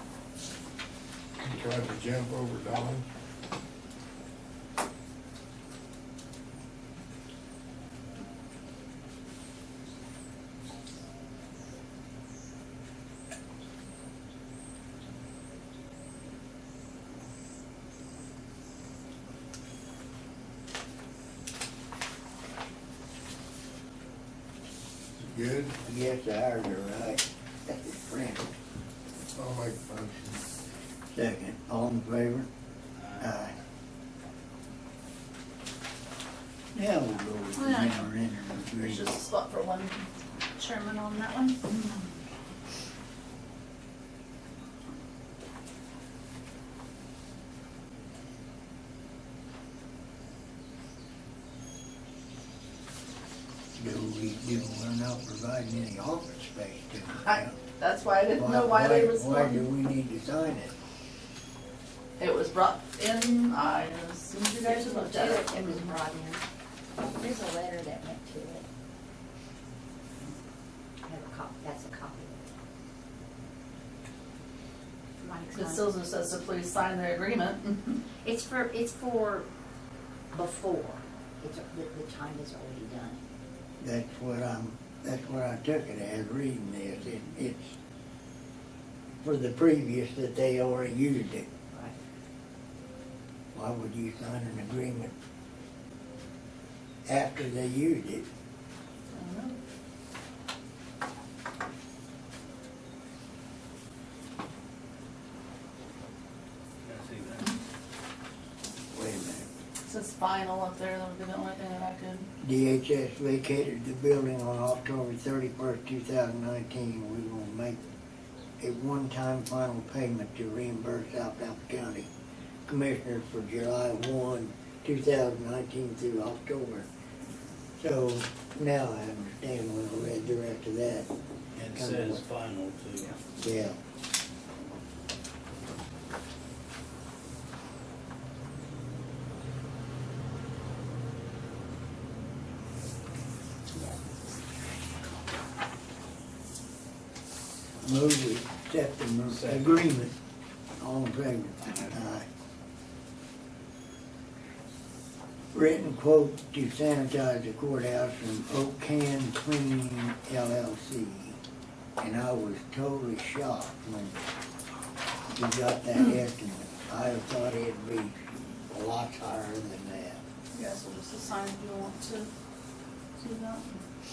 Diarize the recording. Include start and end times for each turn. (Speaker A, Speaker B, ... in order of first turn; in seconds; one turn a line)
Speaker A: 1.4-3.0
Speaker A: 25.2-25.8
Speaker B: 25.9-28.5
Speaker A: 29.3-30.4
Speaker B: 31.1-32.5
Speaker C: 33.0-33.3
Speaker B: 33.2-33.5
Speaker B: 36.7-39.1
Speaker D: 37.6-38.1
Speaker D: 38.8-42.1
Speaker B: 53.8-57.6
Speaker D: 57.2-59.7
Speaker B: 58.3-60.7
Speaker D: 62.2-66.0
Speaker E: 64.6-66.4
Speaker E: 67.0-68.7
Speaker E: 71.0-72.4
Speaker E: 75.2-75.9
Speaker D: 75.5-78.0
Speaker E: 78.2-79.5
Speaker E: 80.3-83.2
Speaker B: 83.8-87.8
Speaker B: 89.2-91.5
Speaker B: 93.5-95.1
Speaker B: 97.1-98.3
Speaker D: 99.1-99.6
Speaker C: 106.8-107.5
Speaker B: 108.9-109.5
Speaker D: 109.9-112.3
Speaker B: 112.4-117.8
Speaker B: 118.6-122.1
Speaker B: 122.7-126.8
Speaker B: 127.8-131.1
Speaker C: 131.5-133.2
Speaker B: 131.7-132.2
Speaker B: 133.3-133.8
Speaker B: 147.8-150.1
Speaker C: 149.2-149.9
Speaker B: 150.8-152.2
Speaker B: 155.5-161.4
Speaker B: 162.0-164.2
Speaker B: 165.3-170.2
Speaker D: 170.5-172.3
Speaker D: 173.2-173.8